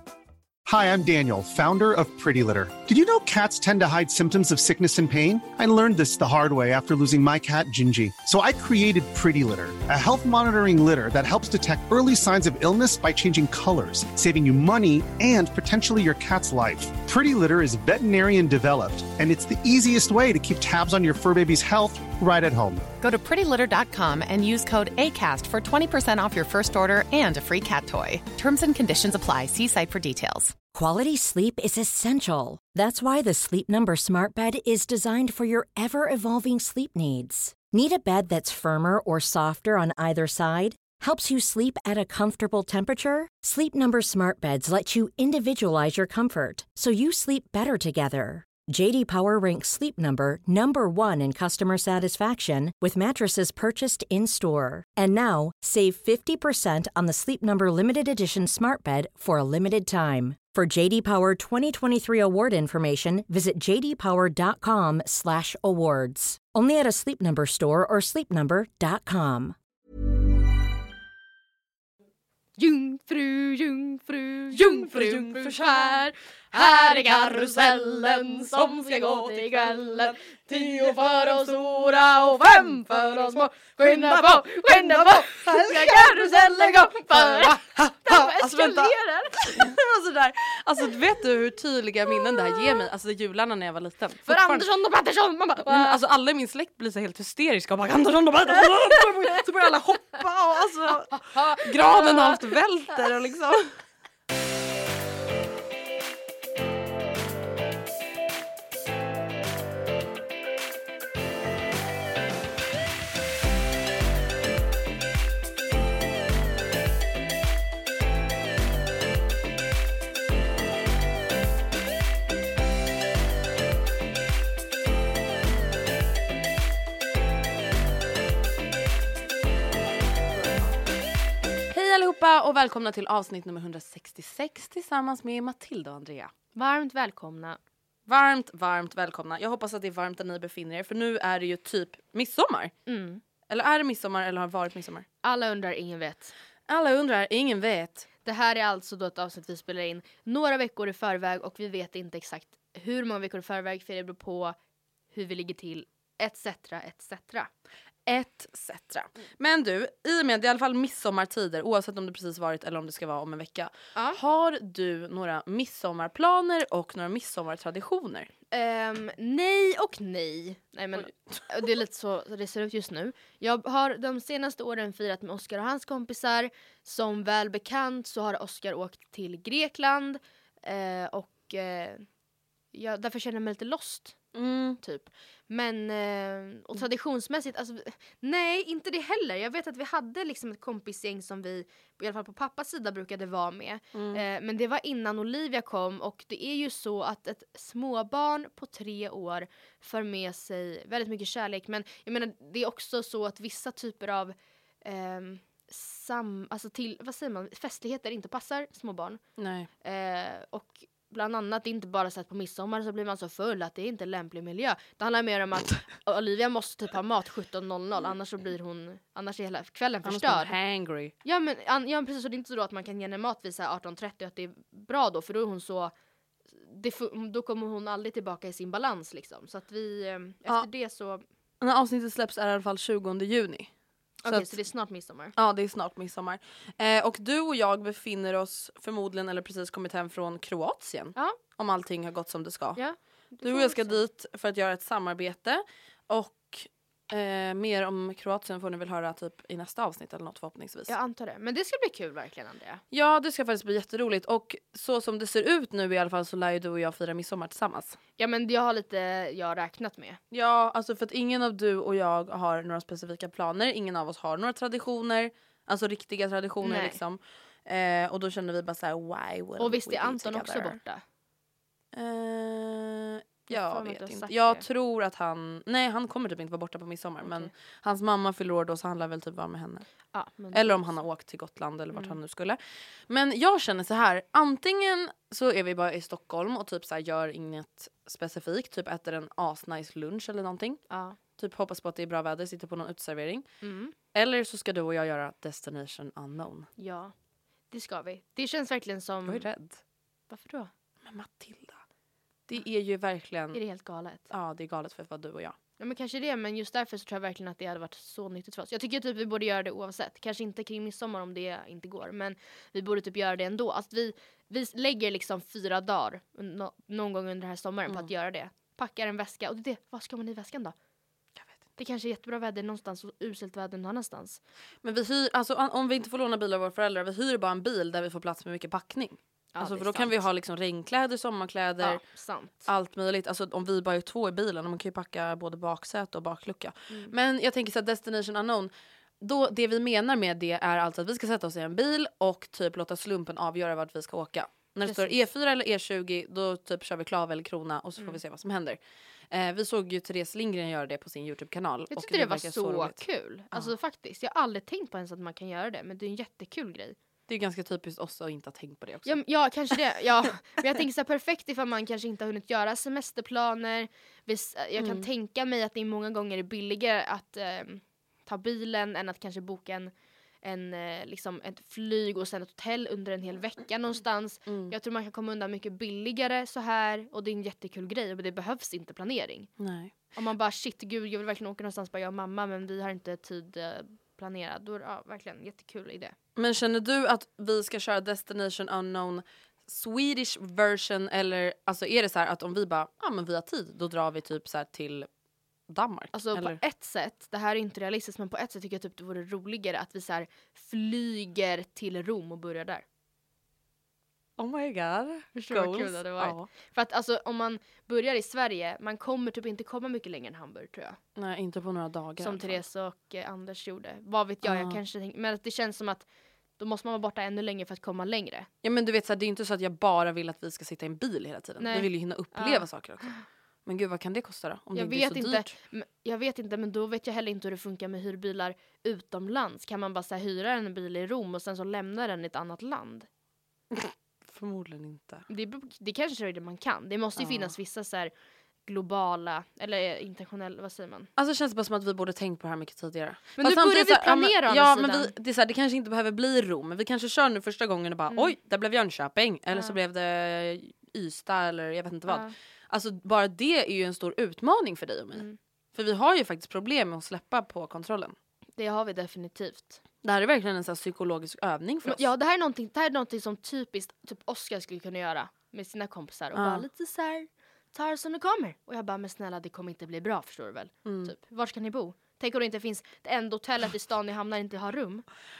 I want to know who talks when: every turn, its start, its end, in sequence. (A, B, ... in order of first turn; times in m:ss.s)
0:00.6-0:22.8 A
0:23.0-0:30.5 B
0:30.7-1:09.6 C
1:12.6-1:29.6 D
1:14.5-1:16.0 E
1:16.6-1:34.7 E
1:32.4-1:32.8 D
1:34.3-1:36.0 D
1:35.6-1:43.8 E
1:41.1-1:42.4 D
2:10.4-2:10.7 E
2:11.7-2:16.3 E
2:16.5-2:17.6 D
2:18.1-2:22.7 E
2:22.8-2:23.2 D
2:23.5-2:25.0 E
2:25.2-2:26.3 D
2:26.7-2:28.1 E
2:28.2-2:34.6 D
2:35.1-2:37.5 D
2:38.0-2:48.3 E
2:48.5-3:02.0 D
2:51.0-2:51.4 E
3:02.7-3:04.2 D
3:04.3-3:04.8 E
3:04.8-3:29.2 D
3:13.9-3:14.2 E
3:29.4-3:29.7 E
3:29.8-3:40.5 D
3:40.0-3:41.1 E
3:41.2-3:45.9 D
3:46.5-3:51.2 D
3:51.6-3:53.7 E
3:54.2-3:54.6 E
3:54.2-3:55.3 D
3:55.3-4:02.8 E
4:02.8-4:04.0 D
4:03.4-4:10.9 E
4:10.9-4:12.8 D
4:12.9-4:18.0 E
4:18.2-4:20.2 D
4:20.3-4:30.8 E
4:26.6-4:27.0 D
4:29.6-4:31.0 D
4:31.9-4:39.9 E
4:33.5-4:34.6 D
4:37.2-4:37.5 D
4:40.1-4:41.0 D
4:40.5-4:50.8 E
4:50.9-4:51.2 D
4:51.4-4:53.6 E
4:53.6-4:53.9 D
4:54.1-4:56.7 E
4:56.8-4:57.1 D
4:57.7-4:59.4 D
4:59.2-4:59.8 E
5:00.3-5:00.7 D
5:01.0-5:01.8 E
5:02.5-5:03.6 E
5:03.5-5:04.3 D
5:04.3-5:05.5 E
5:05.8-5:20.7 D
5:21.8-5:24.4 D
5:24.8-5:32.0 E
5:29.5-5:30.2 D
5:31.8-5:32.7 D
5:32.6-5:48.8 E
5:44.8-5:45.2 D
5:49.3-5:53.7 E
5:51.9-5:57.0 D
5:57.3-5:59.2 E
5:59.0-6:19.5 D
6:04.8-6:05.0 E
6:14.4-6:14.7 E
6:19.6-6:19.9 E
6:20.1-6:26.1 D
6:26.4-6:35.1 E
6:35.7-6:36.6 E
6:36.1-6:42.8 D
6:44.4-6:46.5 E
6:45.3-6:51.0 D
6:51.2-6:52.6 E
6:52.2-6:56.0 D
6:54.4-6:54.8 E
6:56.6-6:58.5 D
6:58.6-7:05.5 E
7:01.6-7:03.2 D
7:04.7-7:13.1 D
7:13.7-7:15.3 E
7:15.3-7:18.1 D
7:17.2-7:17.5 E
7:18.6-7:21.1 D
7:21.2-7:38.1 E
7:23.4-7:25.1 D
7:28.1-7:28.3 D
7:32.1-7:32.3 D
7:38.6-7:39.8 D
7:40.0-7:42.1 E
7:41.8-7:55.0 D
7:46.3-7:46.6 E
7:50.8-7:51.1 E